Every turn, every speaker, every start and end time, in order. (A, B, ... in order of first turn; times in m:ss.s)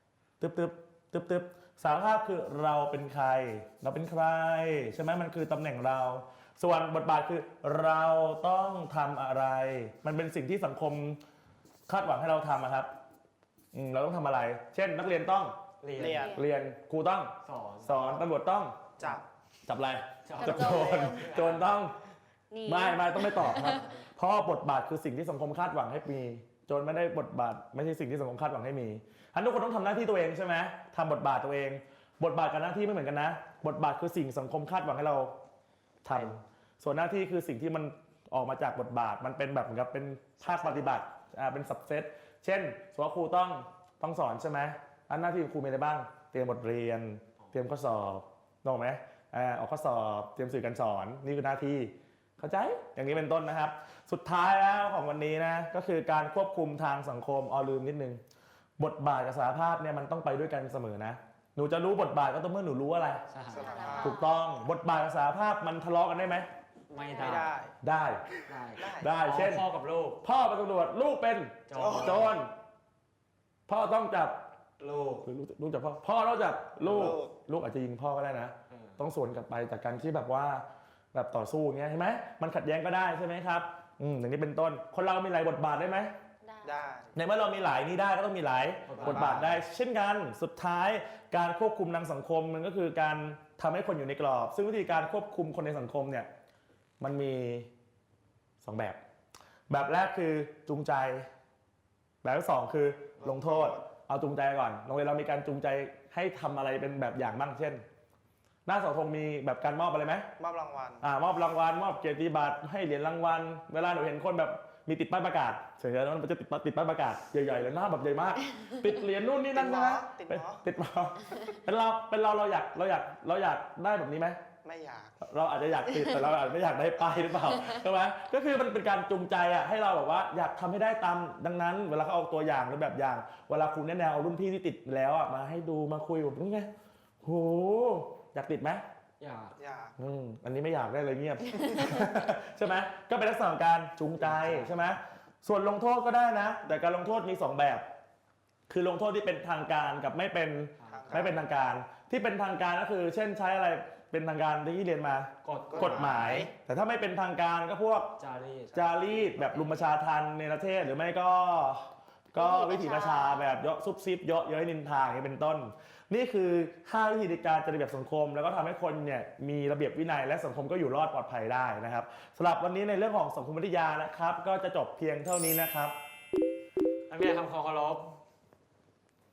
0:00.4-0:11.2 A
0:11.9-0:12.9 A
0:13.7-0:15.6 A
0:15.8-0:16.3 B
0:16.0-0:16.4 C
0:16.0-0:16.4 D
0:16.2-0:18.9 A
0:17.4-0:18.0 B
0:19.0-0:19.2 C
0:19.6-0:21.9 A
0:20.2-0:21.7 B
0:20.4-0:21.3 D
0:20.5-0:21.1 C
0:22.5-0:23.9 D
0:22.6-0:35.3 A
0:23.6-0:23.9 B
0:36.0-0:58.2 A
0:36.1-0:36.4 B
0:40.4-0:41.0 C
0:58.8-1:03.2 A
1:03.3-1:03.9 B
1:03.5-1:04.2 C
1:03.5-1:04.3 D
1:03.9-1:06.5 A
1:06.9-1:07.6 B
1:07.0-1:07.4 D
1:07.2-1:07.7 C
1:07.8-1:08.2 A
1:08.5-1:10.2 B
1:08.8-1:09.1 C
1:08.8-1:09.6 A
1:10.2-1:12.5 A
1:11.7-1:12.4 B
1:11.7-1:12.3 C
1:13.7-1:14.4 A
1:14.8-1:15.2 B
1:15.2-1:26.1 A
1:16.8-1:17.3 C
1:18.7-1:19.0 B
1:26.4-1:26.8 D
1:26.6-1:27.2 C
1:27.1-1:36.3 A
1:28.9-1:29.6 B
1:29.0-1:29.5 C
1:37.0-1:37.7 A
1:38.6-1:39.0 A
1:39.7-1:41.3 A
1:42.2-1:47.8 A
1:43.2-1:43.8 C
1:48.6-1:50.3 A
1:50.4-1:51.0 C
1:51.0-2:04.4 A
1:59.5-2:00.6 C
2:04.6-2:05.2 C
2:05.2-2:16.7 A
2:17.2-2:18.8 A
2:19.2-2:19.6 B
2:19.6-2:19.9 C
2:20.0-2:27.8 A
2:24.2-2:24.7 B
2:28.7-2:38.2 A
2:30.8-2:31.3 B
2:30.9-2:31.4 C
2:35.4-2:36.4 B
2:35.7-2:36.5 C
2:38.2-2:39.9 B
2:38.7-2:55.9 A
2:42.4-2:43.5 D
2:57.1-2:58.1 B